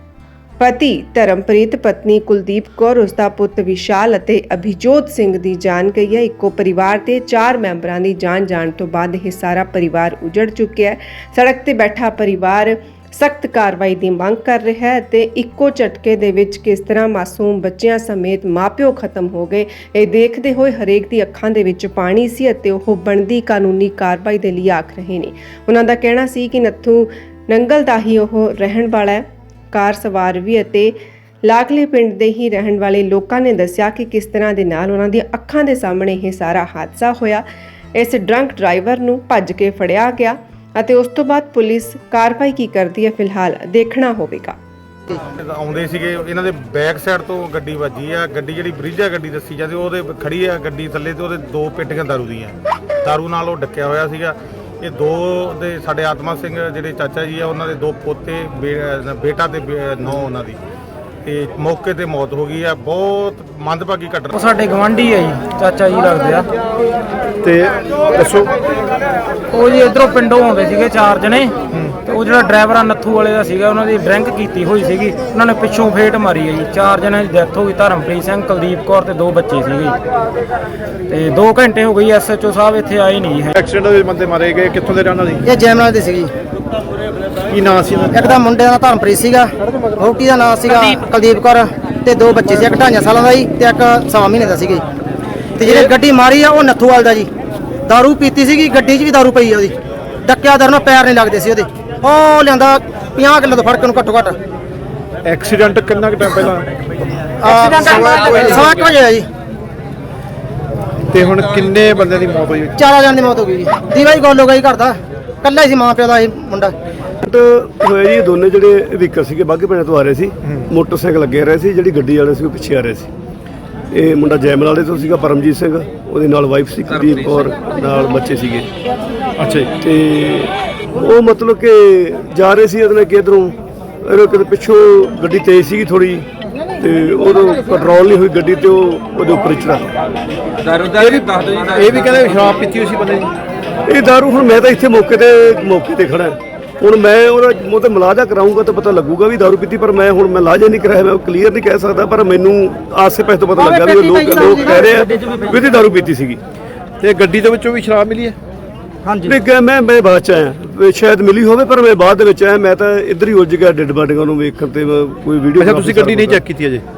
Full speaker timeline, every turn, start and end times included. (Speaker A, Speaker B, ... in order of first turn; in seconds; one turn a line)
Speaker A: 0.6-37.4
Speaker A: 38.0-44.6
Speaker B: 45.2-60.6
Speaker B: 61.2-64.3
Speaker C: 64.3-66.5
Speaker D: 67.4-68.5
Speaker C: 69.5-80.0
Speaker C: 81.1-83.5
Speaker D: 83.5-85.4
Speaker E: 85.5-86.3
Speaker D: 87.5-88.4
Speaker E: 88.1-94.8
Speaker E: 95.6-97.3
Speaker E: 97.9-104.4
Speaker D: 105.2-106.7
Speaker E: 107.4-109.3
Speaker D: 107.8-108.6
Speaker D: 111.1-112.7
Speaker E: 112.8-116.7
Speaker F: 117.2-123.1
Speaker F: 123.9-128.7
Speaker D: 129.4-129.7
Speaker F: 129.8-136.3
Speaker F: 136.8-139.9
Speaker D: 140.8-143.3
Speaker F: 143.9-156.4
Speaker E: 153.6-154.9
Speaker D: 157.0-158.4
Speaker F: 159.2-166.4
Speaker D: 165.6-166.8